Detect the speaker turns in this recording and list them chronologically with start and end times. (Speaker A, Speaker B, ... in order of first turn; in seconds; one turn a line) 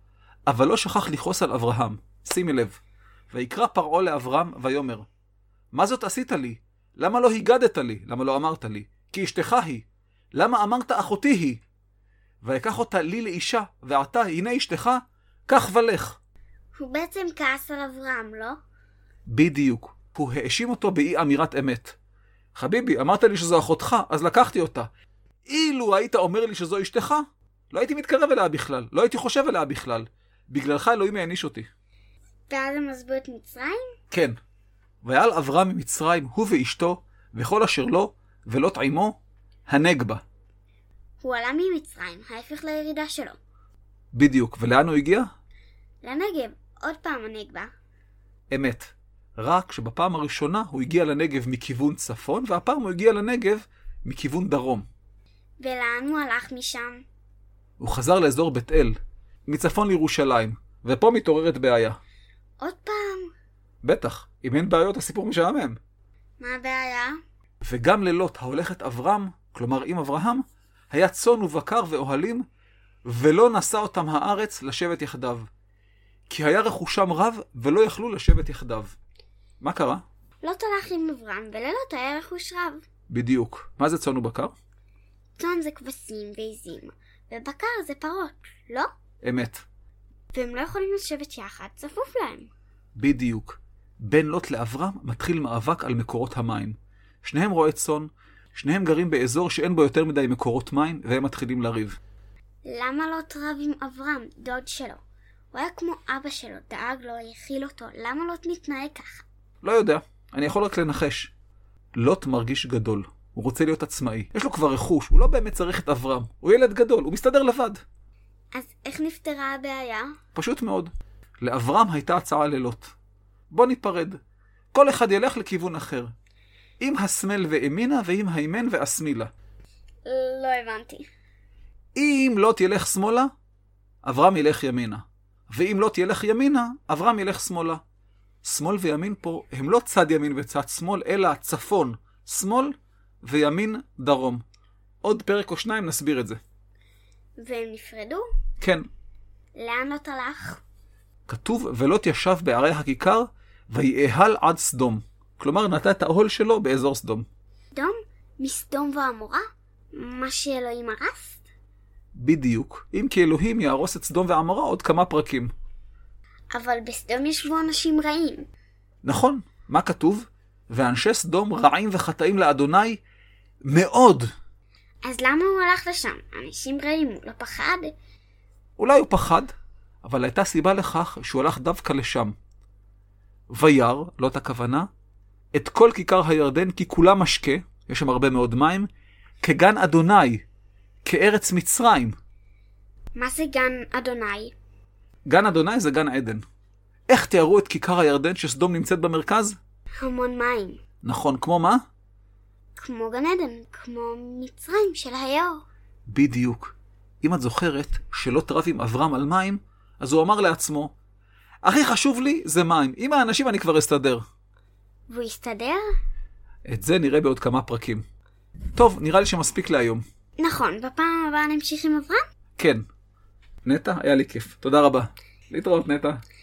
Speaker A: 0.5-2.8
Speaker A: 3.3-5.1
Speaker A: 5.7-11.6
Speaker A: 12.4-16.2
Speaker B: 16.7-18.6
Speaker A: 19.2-21.9
Speaker A: 22.5-24.9
Speaker A: 25.4-31.7
Speaker B: 32.5-33.9
Speaker A: 35.0-40.2
Speaker B: 41.2-43.4
Speaker A: 44.1-45.3
Speaker B: 46.0-47.7
Speaker A: 48.5-54.9
Speaker B: 55.6-57.0
Speaker A: 57.8-62.0
Speaker B: 62.6-63.3
Speaker A: 63.8-65.8
Speaker B: 66.4-67.1
Speaker A: 67.6-72.5
Speaker A: 73.0-75.5
Speaker A: 76.3-78.9
Speaker A: 79.6-80.0
Speaker B: 80.4-82.8
Speaker A: 83.1-84.5
Speaker B: 85.3-88.9
Speaker A: 89.2-89.6
Speaker B: 90.3-92.5
Speaker A: 93.0-102.0
Speaker B: 102.6-105.0
Speaker B: 105.5-109.2
Speaker A: 109.6-111.3
Speaker A: 111.9-117.8
Speaker B: 118.5-120.1
Speaker A: 120.3-122.9
Speaker A: 123.5-124.2
Speaker A: 124.7-126.1
Speaker A: 126.8-129.3
Speaker B: 130.0-131.0
Speaker A: 131.9-133.3
Speaker A: 134.0-137.8
Speaker A: 138.4-144.4
Speaker A: 145.0-146.4
Speaker B: 147.4-148.2
Speaker A: 148.6-148.8
Speaker B: 149.6-150.6
Speaker A: 151.3-157.3
Speaker B: 157.7-159.4
Speaker B: 159.9-161.4
Speaker A: 162.1-165.5
Speaker B: 166.5-168.5
Speaker A: 169.0-173.0
Speaker A: 173.7-174.3
Speaker B: 175.0-177.9
Speaker A: 178.8-179.5
Speaker A: 180.0-182.3
Speaker A: 183.5-184.9
Speaker A: 185.5-188.9
Speaker A: 189.4-190.4
Speaker A: 191.0-192.2
Speaker B: 193.2-194.5
Speaker A: 195.2-196.4
Speaker A: 197.1-199.6
Speaker B: 200.0-200.8
Speaker A: 201.0-201.8
Speaker B: 202.8-205.6
Speaker A: 206.1-210.9
Speaker A: 211.6-214.2
Speaker B: 215.1-215.9
Speaker A: 216.7-218.0
Speaker A: 218.7-220.0
Speaker B: 220.4-222.2
Speaker A: 222.6-222.8
Speaker A: 223.6-226.2